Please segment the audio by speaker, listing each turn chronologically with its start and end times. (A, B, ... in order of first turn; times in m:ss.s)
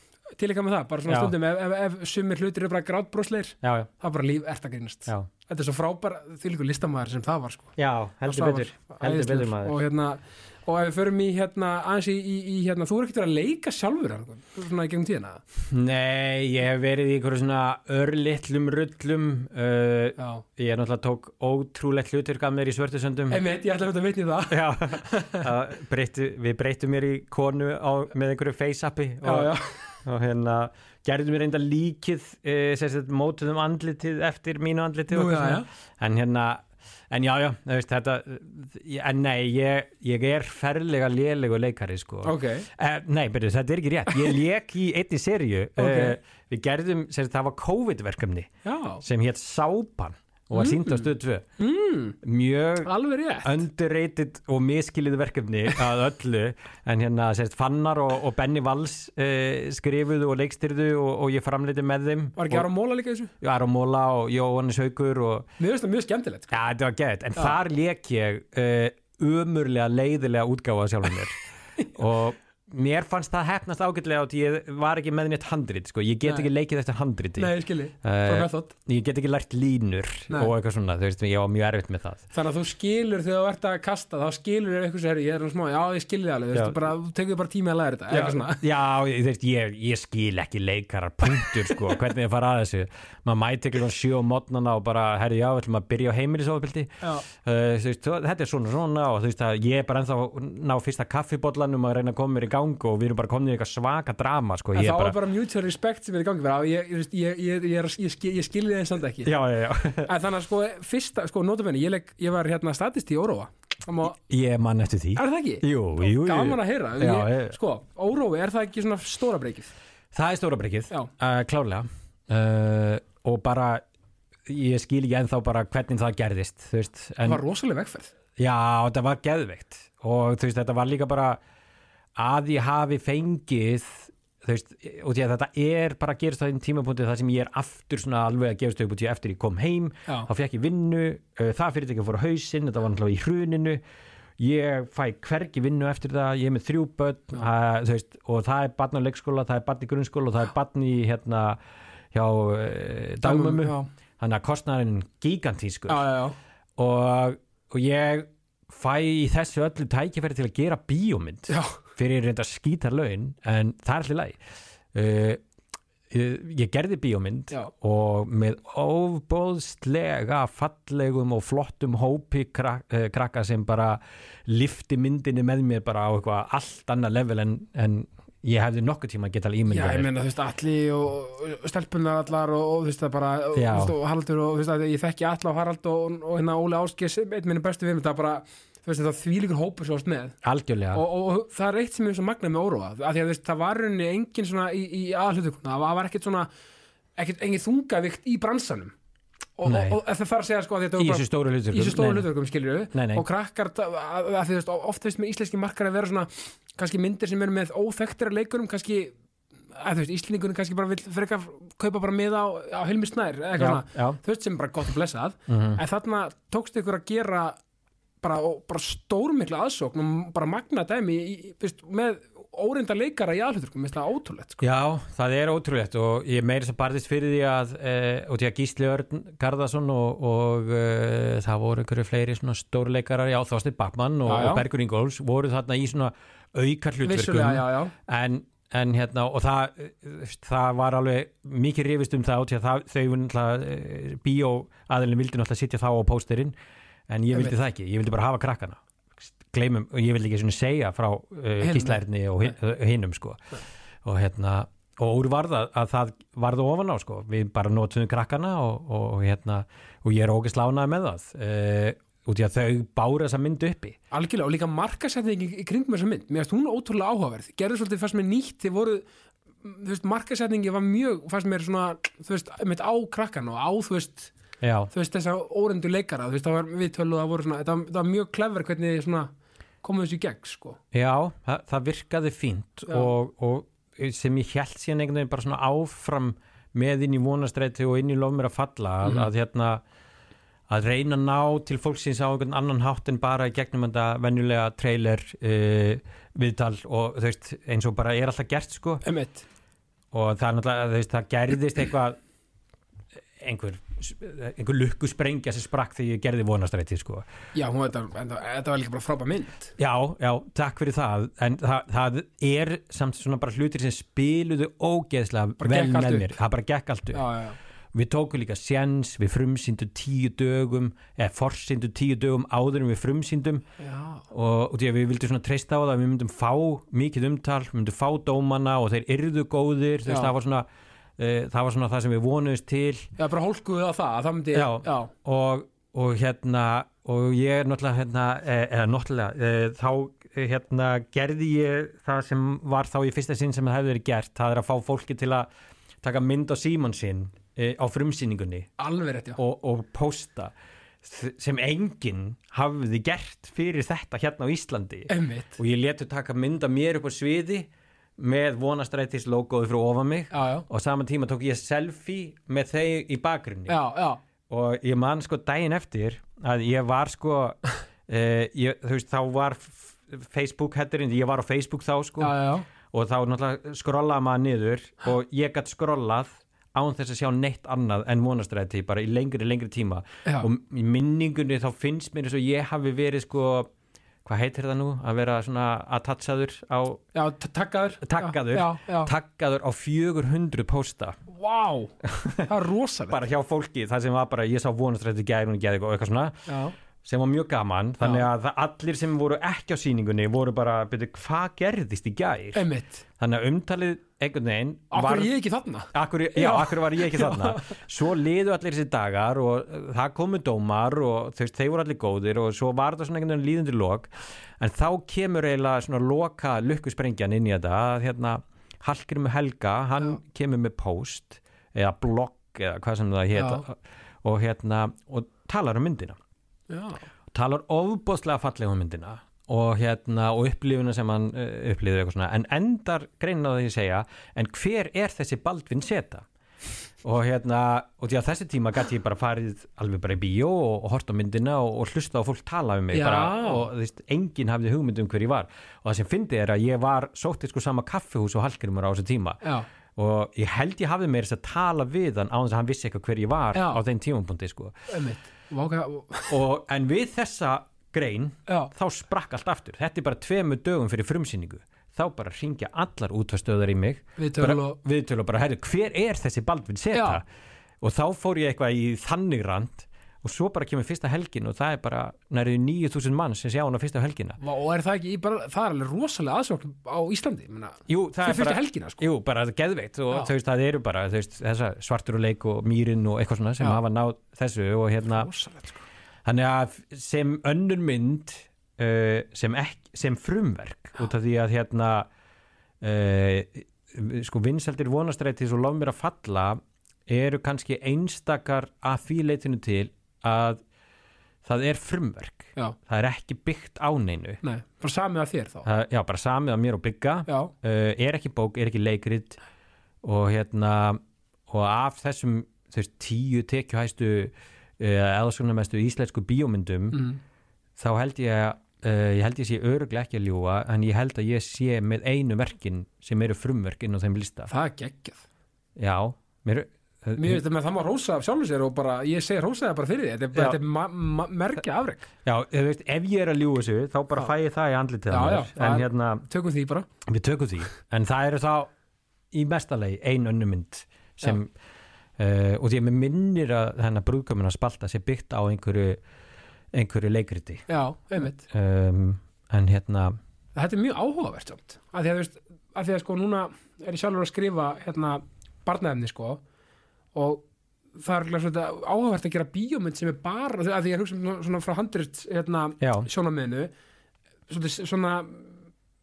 0:00.4-0:07.7 A
0:01.1-0:01.3 B
0:03.6-0:03.9 B
0:07.8-0:09.8 B
0:08.3-0:15.4 A
0:15.7-0:23.4 B
0:20.2-0:20.4 A
0:23.3-0:25.5 A
0:24.5-0:48.5 B
0:29.2-0:30.0 A
0:35.1-0:35.7 A
0:42.2-0:42.7 A
0:45.8-0:46.2 A
0:48.6-0:49.0 A
0:49.0-0:51.4 B
0:50.5-0:52.2 A
0:52.2-0:52.9 B
0:52.8-0:53.6 A
0:53.4-1:02.6 B
1:02.4-1:03.3 A
1:03.4-1:05.5 B
1:05.6-1:06.6 A
1:06.5-1:22.2 B
1:17.4-1:18.7 A
1:22.3-1:28.6 A
1:28.1-1:45.2 B
1:44.7-1:49.3 A
1:49.2-1:50.1 B
1:50.1-1:54.2 A
1:54.1-1:57.6 B
1:55.1-1:59.7 A
2:00.1-2:03.8 B
2:04.4-2:07.4 B
2:07.2-2:08.1 A
2:08.4-2:11.4 B
2:12.2-2:23.8 B
2:24.4-2:31.6 B
2:32.1-2:36.1 B
2:33.2-2:33.9 A
2:35.9-2:36.4 A
2:36.8-2:44.4 B
2:41.5-2:41.8 A
2:44.9-2:45.4 B
2:46.1-3:00.1 B
2:59.7-3:10.4 A
3:03.6-3:03.9 B
3:10.4-3:11.0 B
3:10.9-3:16.5 A
3:17.2-3:18.9 A
3:19.6-3:29.2 A
3:19.6-3:20.0 B
3:21.0-3:22.3 B
3:22.9-3:23.2 B
3:29.7-3:37.6 A
3:33.6-3:34.2 B
3:35.5-3:35.8 B
3:38.2-3:44.6 A
3:44.6-4:06.6 B
3:54.3-3:54.6 A
3:57.0-3:57.9 A
4:07.1-4:24.0 B
4:11.6-4:12.0 A
4:24.1-4:29.0 A
4:29.6-4:34.3 A
4:34.6-4:34.9 B
4:34.9-4:39.3 A
4:39.8-4:40.8 A
4:40.9-4:49.8 B
4:49.0-4:49.3 A
4:50.7-4:59.0 B
4:59.0-4:59.4 A
5:00.1-5:02.2 B
5:03.4-5:07.3 B
5:07.5-5:09.7 A
5:09.8-5:17.2 B
5:15.6-5:16.4 A
5:17.1-5:17.6 A
5:17.9-5:23.6 B
5:23.8-5:24.2 A
5:24.3-5:30.6 B
5:30.1-5:30.3 A
5:31.2-5:33.1 B
5:33.2-5:35.1 A
5:34.5-5:45.5 B
5:46.0-5:48.7 B
5:48.8-5:49.4 A
5:49.4-6:03.8 B
5:55.1-5:55.6 A
6:00.3-6:00.6 A
6:03.7-6:04.2 A
6:04.5-6:12.4 B
6:12.2-6:12.6 A
6:12.9-6:23.7 B
6:24.2-6:27.0 B
6:27.1-6:29.1 A
6:28.0-6:31.2 B
6:31.3-6:33.2 A
6:32.0-6:32.5 B
6:33.1-6:36.5 B
6:36.5-6:36.7 A
6:37.0-6:42.6 B
6:38.0-6:38.3 A
6:42.5-6:43.0 A
6:43.2-6:45.3 B
6:44.9-6:47.8 A
6:45.9-7:06.2 B
7:03.4-7:03.6 A
7:06.7-7:07.0 A
7:07.3-7:16.2 B
7:17.0-7:29.4 B
7:22.9-7:23.7 A
7:29.4-7:29.7 A
7:29.9-7:34.9 B
7:33.5-7:33.8 A
7:34.9-7:36.4 A
7:36.3-7:47.2 B
7:38.5-7:38.7 A
7:44.2-7:44.8 A
7:46.9-7:47.2 A
7:47.8-7:54.4 B
7:54.4-7:59.0 A
7:57.9-8:05.3 B
8:05.1-8:05.8 A
8:06.2-8:12.1 B
8:12.8-8:20.6 B
8:21.4-8:24.4 B
8:24.4-8:25.7 A
8:25.6-8:29.4 B
8:27.3-8:27.5 A
8:30.0-8:37.0 B
8:36.9-8:37.2 A
8:37.8-8:44.5 B
8:44.5-8:45.2 A
8:45.8-8:47.4 B
8:47.2-8:52.1 A
8:52.2-8:56.2 B
8:55.1-8:56.9 A
8:57.0-8:58.7 B
8:59.3-9:01.5 B
9:02.2-9:06.0 B
9:06.7-9:07.7 B
9:07.7-9:08.4 A
9:08.5-9:10.2 B
9:10.5-9:16.4 A
9:17.1-9:17.4 A
9:18.0-9:23.7 A
9:22.8-9:23.1 B
9:24.5-9:25.6 A